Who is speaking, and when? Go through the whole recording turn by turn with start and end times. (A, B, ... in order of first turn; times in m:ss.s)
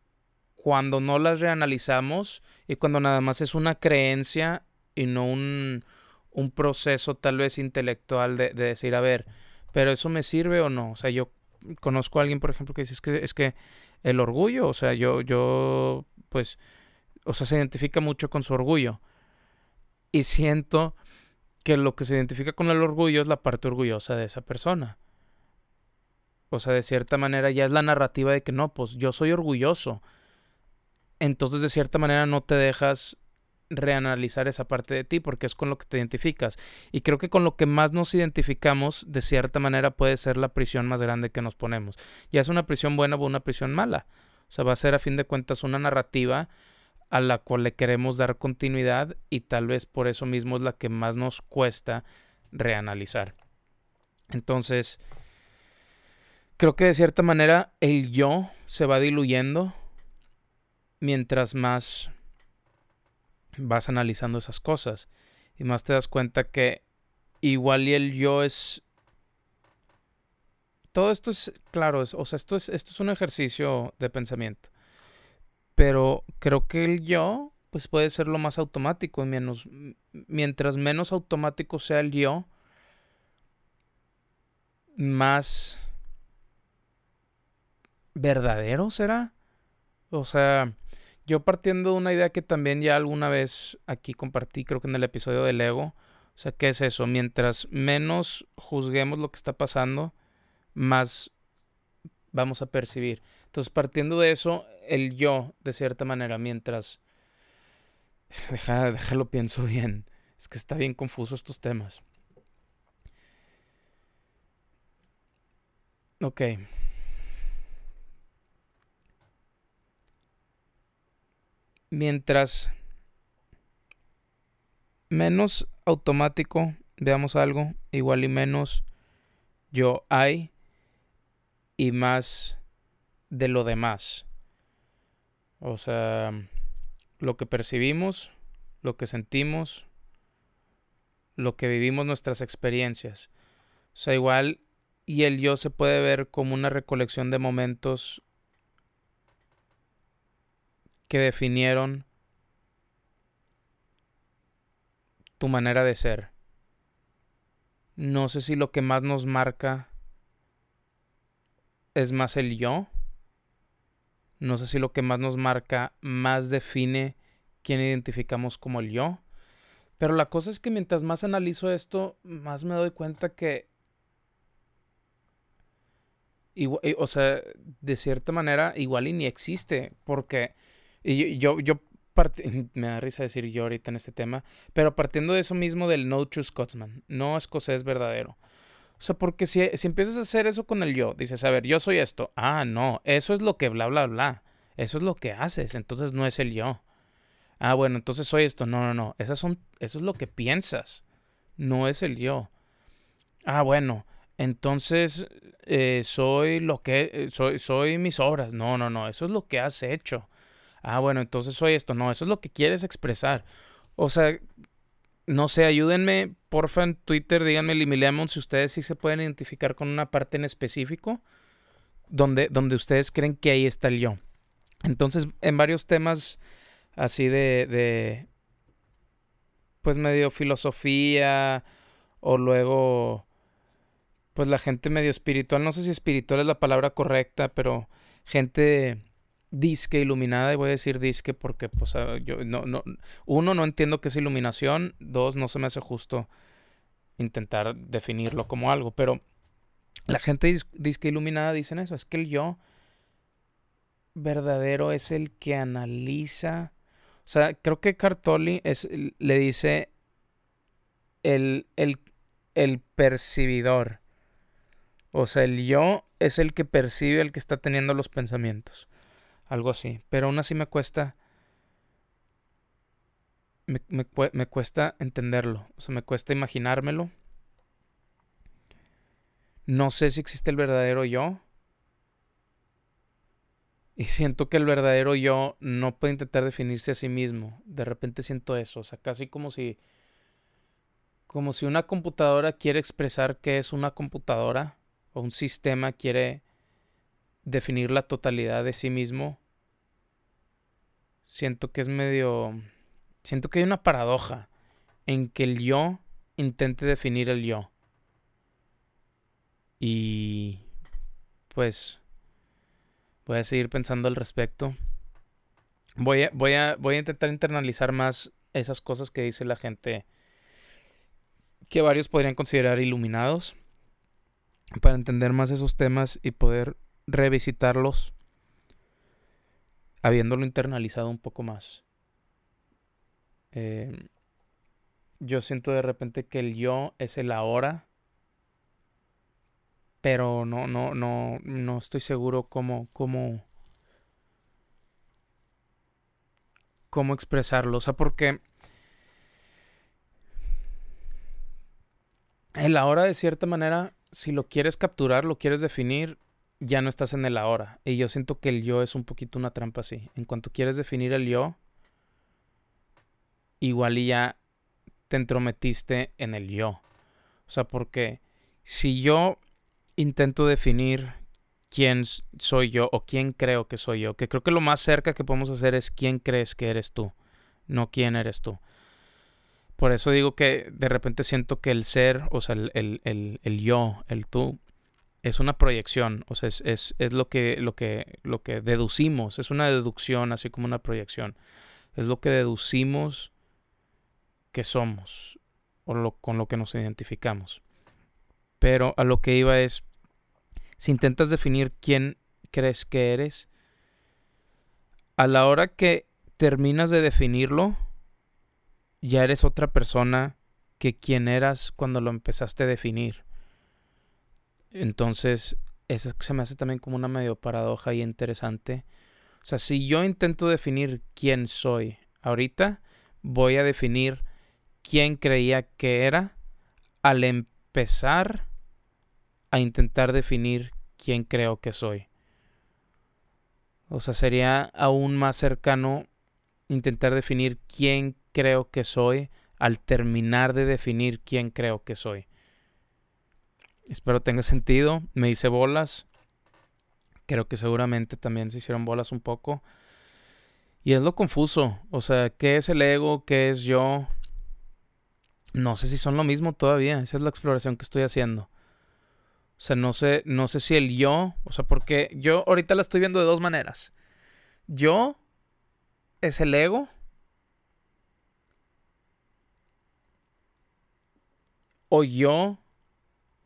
0:00.6-0:16.6 A
0:17.3-0:19.0 A
0:20.1-0:21.0 A
0:21.6-0:25.0 A
0:26.5-0:30.0 A
0:31.2-0:33.2 A
0:33.7-0:46.5 A
0:47.1-0:53.3 A
0:54.3-0:55.0 A
0:56.6-0:59.8 A
1:01.0-1:02.1 A
1:03.6-1:06.8 A
1:07.4-1:08.8 A
1:10.9-1:14.7 A
1:15.8-1:22.5 A
1:25.0-1:25.8 A
1:28.2-1:29.3 A
1:30.1-1:30.7 A
1:31.3-1:40.1 A
1:40.8-1:41.3 A
1:42.3-1:47.0 A
1:48.3-1:52.0 A
1:56.2-1:56.6 A
2:01.9-2:02.7 A
2:05.1-2:08.8 A
2:09.7-2:10.5 A
2:11.8-2:12.6 A
2:13.3-2:14.3 A
2:15.6-2:16.5 A
2:17.2-2:19.9 A
2:21.4-2:23.3 A
2:24.0-2:28.2 A
2:31.1-2:32.1 A
2:35.4-2:36.3 A
2:38.0-2:39.9 A
2:42.0-2:42.9 A
2:44.4-2:49.2 A
2:50.0-2:53.7 A
2:56.6-3:08.4 A
3:09.0-3:16.8 A
3:17.6-3:21.0 A
3:21.6-3:22.5 A
3:23.4-3:30.3 A
3:30.8-3:34.4 A
3:35.3-3:41.2 A
3:42.1-3:44.2 A
3:44.8-3:46.4 A
3:47.0-3:48.3 A
3:49.8-3:51.6 A
3:52.2-3:53.3 A
3:54.4-4:06.3 A
4:07.2-4:09.2 A
4:10.1-4:12.6 A
4:14.2-4:16.7 A
4:17.3-4:19.9 A
4:21.2-4:22.0 A
4:22.6-4:24.0 A
4:25.1-4:28.9 A
4:29.5-4:31.2 A
4:33.7-4:37.1 A
4:39.7-4:41.4 A
4:44.0-4:49.8 A
4:51.3-4:56.4 A
4:57.4-4:59.4 A
5:01.3-5:02.6 A
5:03.2-5:04.5 A
5:05.1-5:07.7 A
5:09.8-5:10.6 A
5:11.5-5:12.0 A
5:13.3-5:14.8 A
5:16.0-5:20.0 A
5:21.7-5:23.6 A
5:24.8-5:28.1 A
5:30.0-5:31.8 A
5:33.5-5:34.1 A
5:35.2-5:37.9 A
5:40.0-5:43.4 A
5:46.9-5:48.4 A
5:52.6-6:01.6 A
6:03.6-6:04.4 A
6:05.1-6:06.8 A
6:07.5-6:09.4 A
6:10.0-6:11.2 A
6:11.7-6:17.1 A
6:17.7-6:18.6 A
6:19.8-6:24.6 A
6:25.2-6:31.4 A
6:32.0-6:33.3 A
6:34.5-6:37.6 A
6:38.6-6:39.8 A
6:40.8-6:43.5 A
6:45.2-6:47.8 A
6:49.0-6:53.2 A
6:54.7-6:58.8 A
6:59.4-7:04.2 A
7:04.8-7:06.4 A
7:07.0-7:08.5 A
7:09.5-7:12.1 A
7:13.9-7:16.1 A
7:16.7-7:22.3 A
7:23.9-7:26.1 A
7:27.3-7:29.6 A
7:30.8-7:34.1 A
7:35.5-7:38.5 A
7:39.6-7:43.9 A
7:44.7-7:45.2 A
7:46.2-7:46.9 A
7:51.9-7:52.6 A